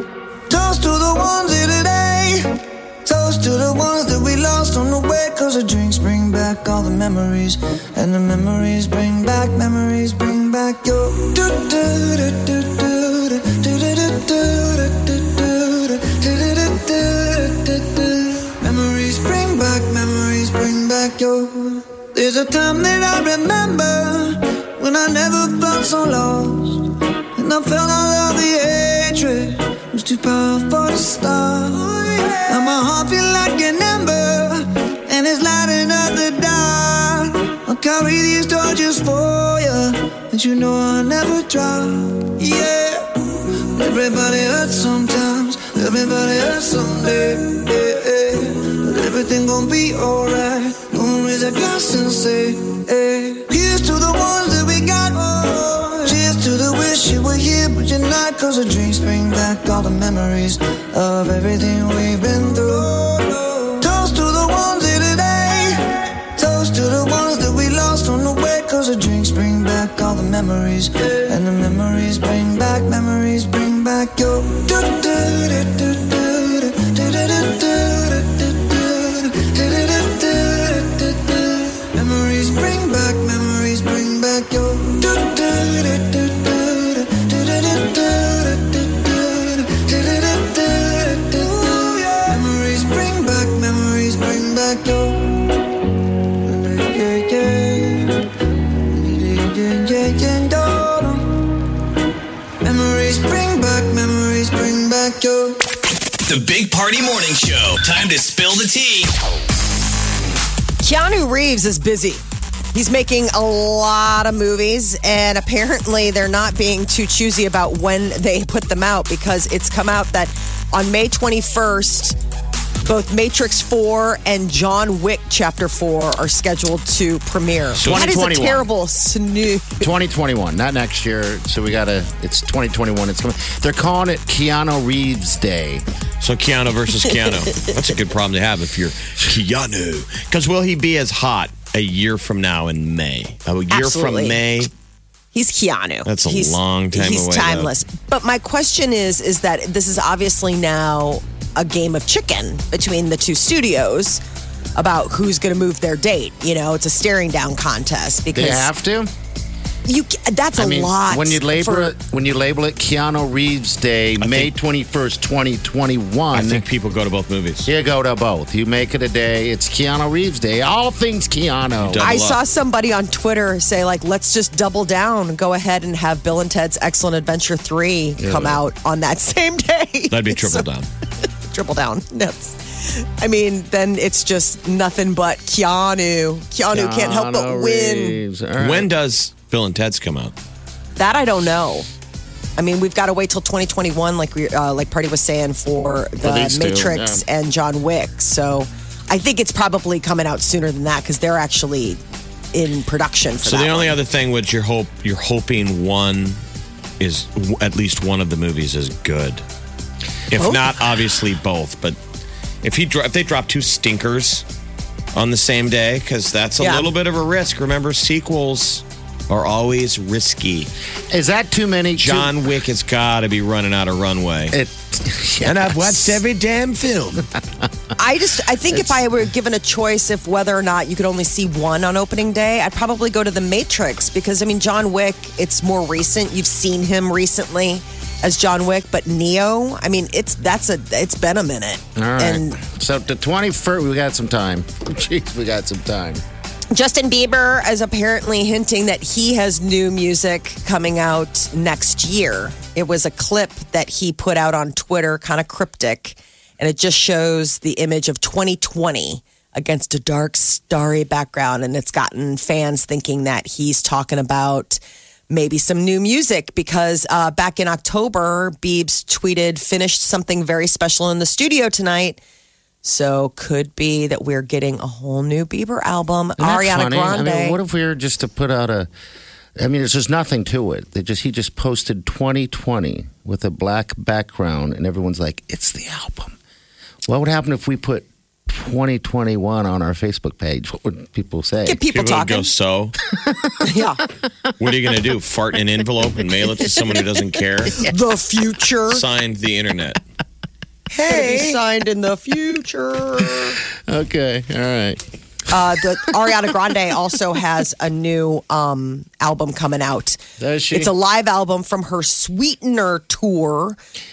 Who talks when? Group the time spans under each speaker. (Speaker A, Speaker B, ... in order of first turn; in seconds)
Speaker A: 0.5-95.6, 96.4-98.3, 98.9-101.5, 102.6-105.6
Speaker B: 106.2-109.1
Speaker C: 110.8-112.2, 112.7-122.2, 122.8-129.9, 143.7-144.4, 145.3-154.2, 154.8-158.7, 159.8-161.9, 172.0-180.6, 181.5-188.2, 191.0-191.9, 192.6-202.0, 202.5-204.0, 210.4-210.6, 216.6-216.9, 228.0-242.6, 246.7-272.2, 272.8-277.6, 291.6-292.5, 293.6-294.0, 297.7-299.0, 301.1-303.6, 305.5-310.2, 310.7-313.8
Speaker D: 127.8-128.1, 136.2-144.7, 146.1-147.7, 164.2-164.5, 166.3-167.7, 171.8-172.4, 180.1-180.9, 188.6-190.3, 203.4-206.4, 207.0-209.4, 210.3-212.0, 212.6-214.4, 215.1-220.7, 222.0-224.6, 225.4-227.3, 291.9-292.9, 294.6-297.9, 298.9-300.0, 300.9-301.6
Speaker E: 127.8-128.7, 129.8-135.8, 158.3-159.1, 160.6-166.6, 167.6-172.1, 178.2-178.6, 186.7-188.9, 196.2-197.2, 221.1-222.3, 224.5-226.2, 241.9-246.2, 276.4-278.9, 279.6-286.4, 287.1-291.8, 293.1-293.6, 303.9-305.0, 310.4-310.9